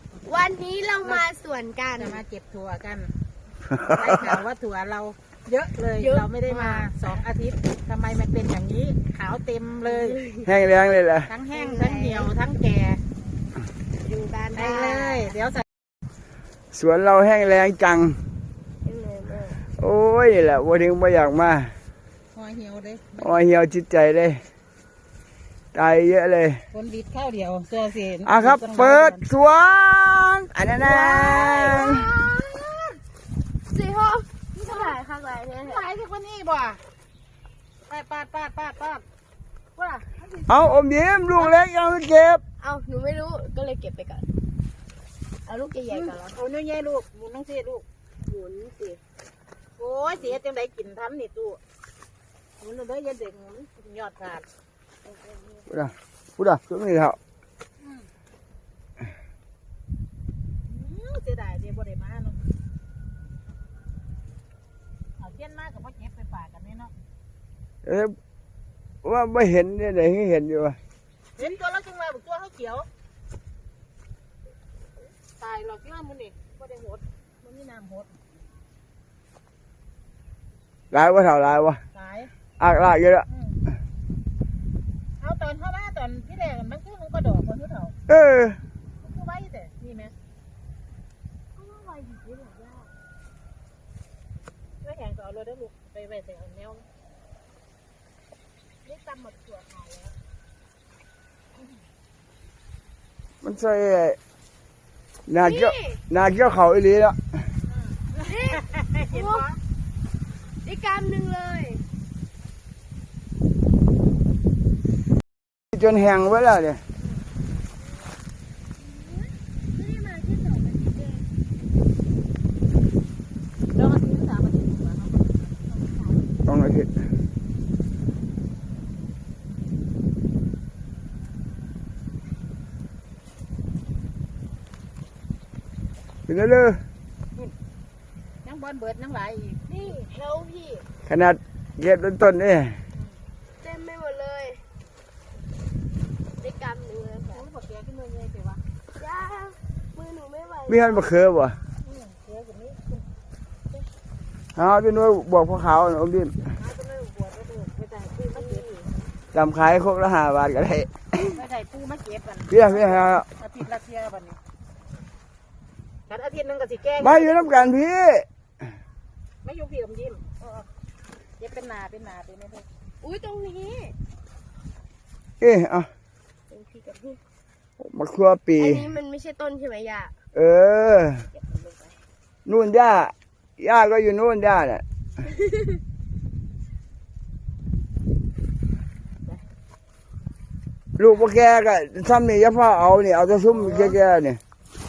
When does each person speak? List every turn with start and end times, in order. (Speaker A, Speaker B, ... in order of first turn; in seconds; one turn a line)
Speaker A: 0.2-2.2
Speaker B: 2.0-3.1
Speaker C: 3.7-4.4
Speaker B: 3.8-10.2
Speaker A: 6.0-6.9
Speaker A: 9.8-10.5
Speaker C: 10.4-11.3
Speaker B: 11.3-13.0
Speaker A: 11.5-12.3
Speaker A: 13.9-15.3
Speaker B: 14.5-15.6
Speaker C: 16.7-18.2
Speaker A: 18.8-19.6
Speaker C: 19.8-21.7
Speaker B: 22.3-23.3
Speaker C: 23.2-24.4
Speaker C: 25.7-26.6
Speaker B: 26.7-29.2
Speaker C: 28.2-32.1
Speaker B: 30.8-33.0
Speaker A: 33.7-35.8
Speaker B: 34.6-35.0
Speaker B: 35.6-36.8
Speaker B: 37.9-39.0
Speaker B: 39.8-40.6
Speaker C: 40.5-42.4
Speaker A: 42.6-44.3
Speaker A: 45.5-46.4
Speaker B: 45.9-47.8
Speaker A: 48.2-49.0
Speaker B: 49.8-51.6
Speaker B: 52.6-54.4
Speaker A: 55.0-55.7
Speaker C: 55.7-57.2
Speaker B: 57.8-58.1
Speaker B: 60.6-62.4
Speaker B: 65.2-66.9
Speaker C: 67.8-68.2
Speaker C: 69.0-70.8
Speaker B: 71.4-72.9
Speaker B: 75.4-78.2
Speaker C: 80.9-81.8
Speaker B: 81.9-82.3
Speaker C: 82.6-83.2
Speaker B: 83.3-83.6
Speaker B: 85.2-87.9
Speaker C: 88.1-88.6
Speaker B: 89.0-90.1
Speaker A: 91.6-92.9
Speaker B: 94.8-96.9
Speaker A: 98.8-100.1
Speaker C: 103.4-104.2
Speaker C: 105.3-107.2
Speaker A: 105.4-106.0
Speaker B: 107.7-109.6
Speaker A: 108.2-109.5
Speaker A: 110.6-111.8
Speaker C: 115.7-116.8
Speaker A: 118.8-121.2
Speaker B: 123.7-126.3
Speaker C: 126.5-126.9
Speaker C: 136.3-136.8
Speaker B: 138.4-139.8
Speaker A: 139.7-140.8
Speaker C: 141.1-142.8
Speaker A: 143.6-144.6
Speaker A: 146.4-147.4
Speaker B: 147.3-148.6
Speaker A: 148.9-151.1
Speaker C: 150.7-151.6
Speaker B: 151.8-153.0
Speaker C: 154.6-156.4
Speaker B: 156.6-158.7
Speaker A: 158.3-158.9
Speaker C: 159.3-160.9
Speaker B: 161.3-164.4
Speaker C: 162.5-163.2
Speaker B: 166.1-167.8
Speaker C: 167.0-168.2
Speaker B: 169.4-170.2
Speaker A: 170.4-170.7
Speaker B: 171.4-172.6
Speaker A: 173.0-173.9
Speaker C: 175.4-175.9
Speaker A: 176.5-177.2
Speaker C: 177.8-178.9
Speaker A: 178.6-180.1
Speaker C: 180.3-181.2
Speaker A: 181.3-182.0
Speaker C: 182.4-184.8
Speaker A: 185.2-185.8
Speaker C: 191.0-194.4
Speaker B: 193.5-194.0